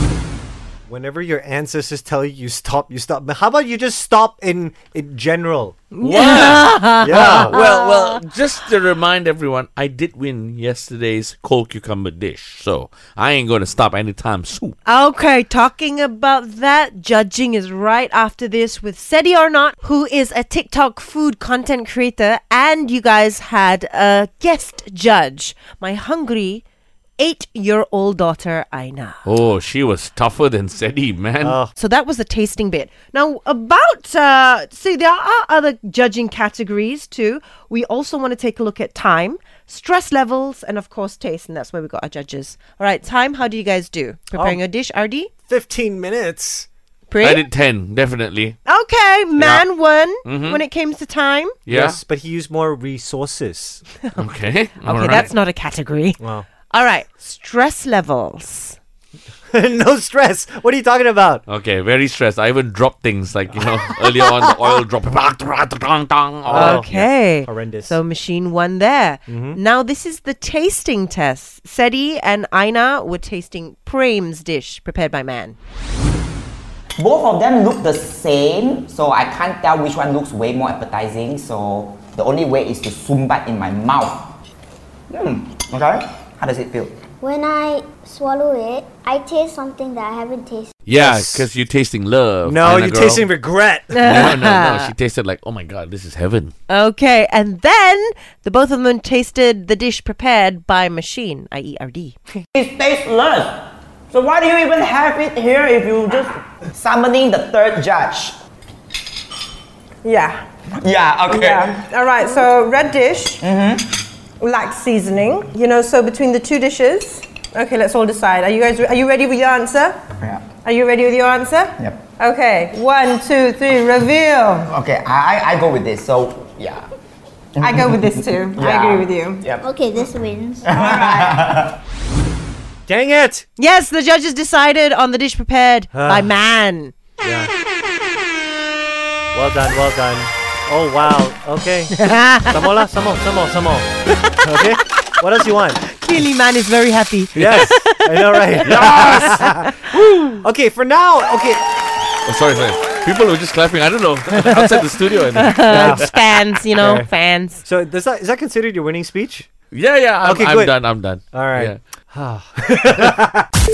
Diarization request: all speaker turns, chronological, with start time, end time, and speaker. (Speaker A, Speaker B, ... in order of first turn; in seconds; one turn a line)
Speaker A: 0.9-5.8
Speaker B: 5.9-8.2
Speaker C: 6.0-14.8
Speaker A: 7.0-7.5
Speaker B: 14.8-26.6
Speaker B: 27.2-29.2
Speaker C: 29.2-31.6
Speaker A: 31.4-31.7
Speaker B: 31.8-45.3
Speaker A: 44.3-44.6
Speaker A: 45.5-46.7
Speaker B: 47.1-47.5
Speaker C: 47.2-48.6
Speaker B: 48.7-51.6
Speaker C: 49.4-49.6
Speaker C: 50.2-50.6
Speaker C: 51.7-52.0
Speaker A: 51.7-53.8
Speaker C: 54.2-55.3
Speaker B: 54.8-56.2
Speaker A: 56.2-56.5
Speaker B: 56.7-58.8
Speaker A: 59.5-61.4
Speaker C: 61.5-66.9
Speaker A: 63.6-64.3
Speaker A: 66.5-68.0
Speaker B: 66.5-75.6
Speaker A: 69.3-69.6
Speaker D: 77.0-84.3
Speaker D: 85.1-87.0
Speaker E: 87.2-90.7
Speaker C: 90.9-93.3
Speaker A: 90.9-91.5
Speaker A: 92.5-94.3
Speaker B: 93.9-94.9
Speaker C: 94.0-96.5
Speaker B: 96.7-102.2
Speaker D: 102.5-108.4
Speaker F: 110.0-110.4
Speaker D: 110.8-111.8
Speaker F: 111.3-113.4
Speaker D: 113.4-113.9
Speaker F: 114.4-120.0
Speaker D: 120.2-120.5
Speaker F: 120.6-124.7
Speaker D: 124.7-126.9
Speaker D: 127.6-129.7
Speaker F: 127.6-129.5
Speaker E: 129.6-130.7
Speaker D: 130.6-131.8
Speaker F: 130.7-131.4
Speaker A: 132.9-133.5
Speaker B: 133.6-136.9
Speaker A: 135.9-136.3
Speaker A: 137.2-137.5
Speaker A: 139.3-143.9
Speaker B: 141.9-142.7
Speaker A: 144.4-145.8
Speaker B: 145.9-149.4
Speaker A: 147.4-151.6
Speaker C: 148.6-149.4
Speaker C: 152.2-156.1
Speaker B: 155.4-157.6
Speaker A: 155.7-156.1
Speaker A: 156.8-157.1
Speaker A: 157.6-159.5
Speaker C: 159.7-161.8
Speaker A: 160.2-160.7
Speaker A: 161.3-163.5